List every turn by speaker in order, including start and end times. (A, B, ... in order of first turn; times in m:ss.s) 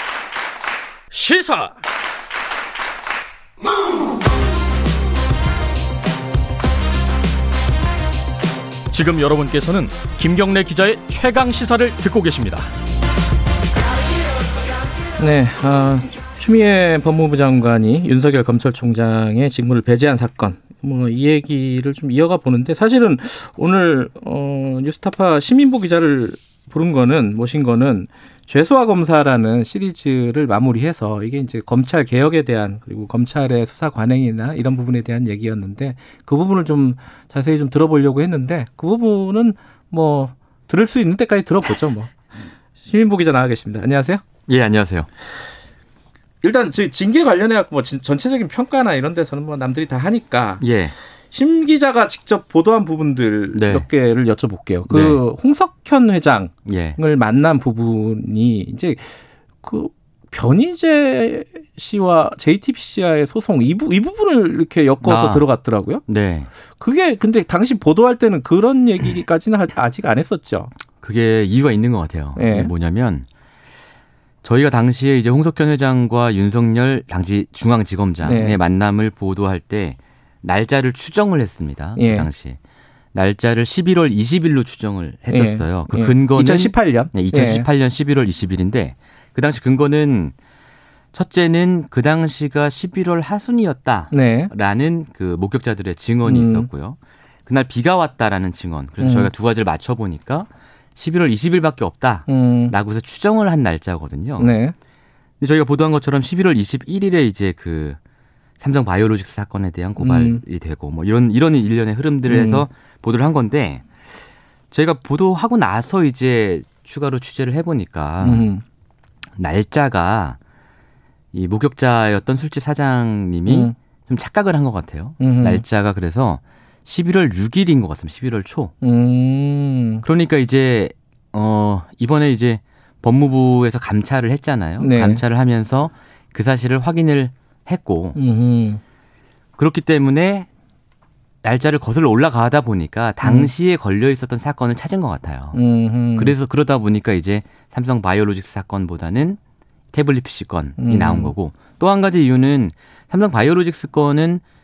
0:01.1-0:01.7 A
0:08.9-0:12.7 A
0:15.2-0:42.1 B
0:42.8-0:44.2 B
0:44.5-0:45.1 C
0:46.4-0:50.6 B
0:50.6-0:50.9 C
0:51.3-1:06.0 B
0:53.5-0:53.8 C
0:54.9-0:55.2 C
0:56.6-0:57.0 C
1:05.0-1:05.4 C
1:06.1-1:06.5 C
1:06.8-1:10.7 B
1:11.0-1:13.2 C
1:12.3-1:12.7 B
1:14.4-1:22.6 C
1:18.2-1:18.6 B
1:22.0-1:22.3 B
1:23.1-1:30.3 C
1:25.3-1:27.7 B
1:31.1-1:44.5 C
1:34.1-1:34.5 B
1:36.2-1:36.7 B
1:39.0-1:39.3 B
1:42.3-1:42.7 B
1:44.4-1:44.7 B
1:45.4-1:48.0 C
1:48.6-1:53.9 C
1:50.0-1:50.4 B
1:52.3-1:52.6 B
1:54.7-1:58.5 C
1:58.2-1:58.6 B
1:59.4-2:00.4 C
2:01.3-2:08.7 C
2:03.4-2:03.7 B
2:05.2-2:05.6 B
2:08.8-2:10.0 B
2:10.0-2:18.2 C
2:14.8-2:15.2 B
2:18.1-2:18.8 B
2:19.6-2:20.5 C
2:21.4-2:25.6 C
2:23.2-2:23.5 B
2:25.5-2:26.4 B
2:26.2-2:29.4 C
2:29.9-2:34.4 C
2:30.8-2:31.3 B